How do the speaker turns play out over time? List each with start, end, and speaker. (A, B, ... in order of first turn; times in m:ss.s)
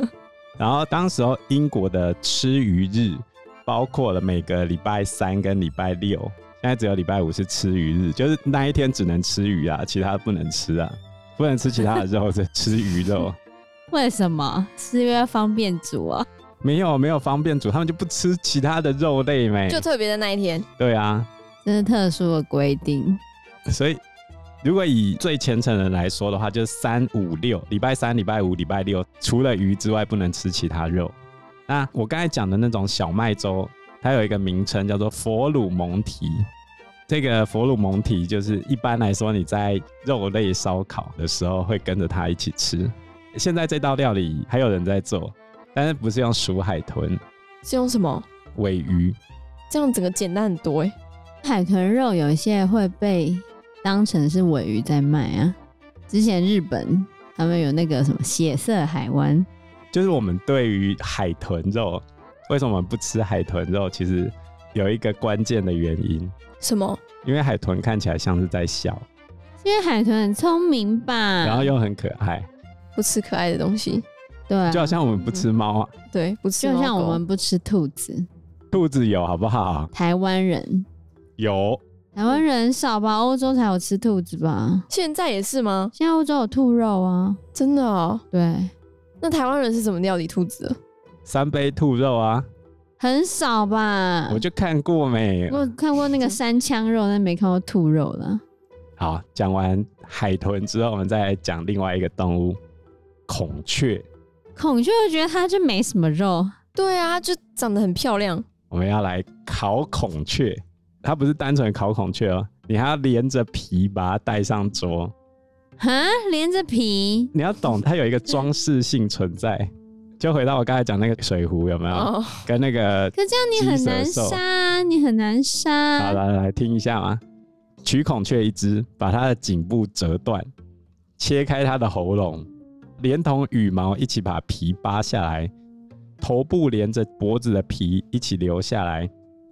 0:00.6-0:13.4 A
0:13.9-0:16.3 B
0:16.6-0:19.8 A
0:19.7-0:20.6 C
0:20.8-0:21.3 A
0:21.6-0:23.2 B
0:23.7-0:24.0 A
0:24.6-0:31.1 A
0:31.7-0:36.5 A
0:37.1-0:47.2 A
0:47.6-0:48.3 C
0:48.6-0:49.2 A
0:49.7-0:50.9 C
0:51.4-0:55.6 B
0:56.1-0:59.5 B
0:59.9-1:06.3 A
1:06.6-1:07.0 C
1:07.2-1:09.1 A
1:09.6-1:11.7 B
1:11.4-1:12.5 A
1:13.0-1:14.0 C
1:14.5-1:15.0 B
1:14.7-1:15.9 A
1:16.1-1:17.2 C
1:16.6-1:18.3 B
1:18.7-1:19.9 A
1:19.9-1:20.9 B
1:21.4-1:21.8 A
1:22.1-1:24.9 B
1:24.9-1:25.9 C
1:26.0-1:27.4 B
1:27.6-1:28.2 C
1:28.3-1:28.7 B
1:29.2-1:30.8 C
1:31.2-1:32.5 A
1:33.0-1:34.4 B
1:34.3-1:35.7 A
1:35.5-1:38.4 B
1:39.0-1:42.6 A
1:43.3-1:44.1 A
1:44.6-1:46.5 B
1:46.8-1:48.4 C
1:48.7-1:55.1 A
1:55.8-1:57.3 B
1:57.3-2:04.4 A
2:01.9-2:02.5 C
2:03.1-2:06.2 B
2:06.0-2:07.2 A
2:07.8-2:10.5 A
2:11.2-2:12.5 A
2:13.0-2:15.5 A
2:16.2-2:19.1 A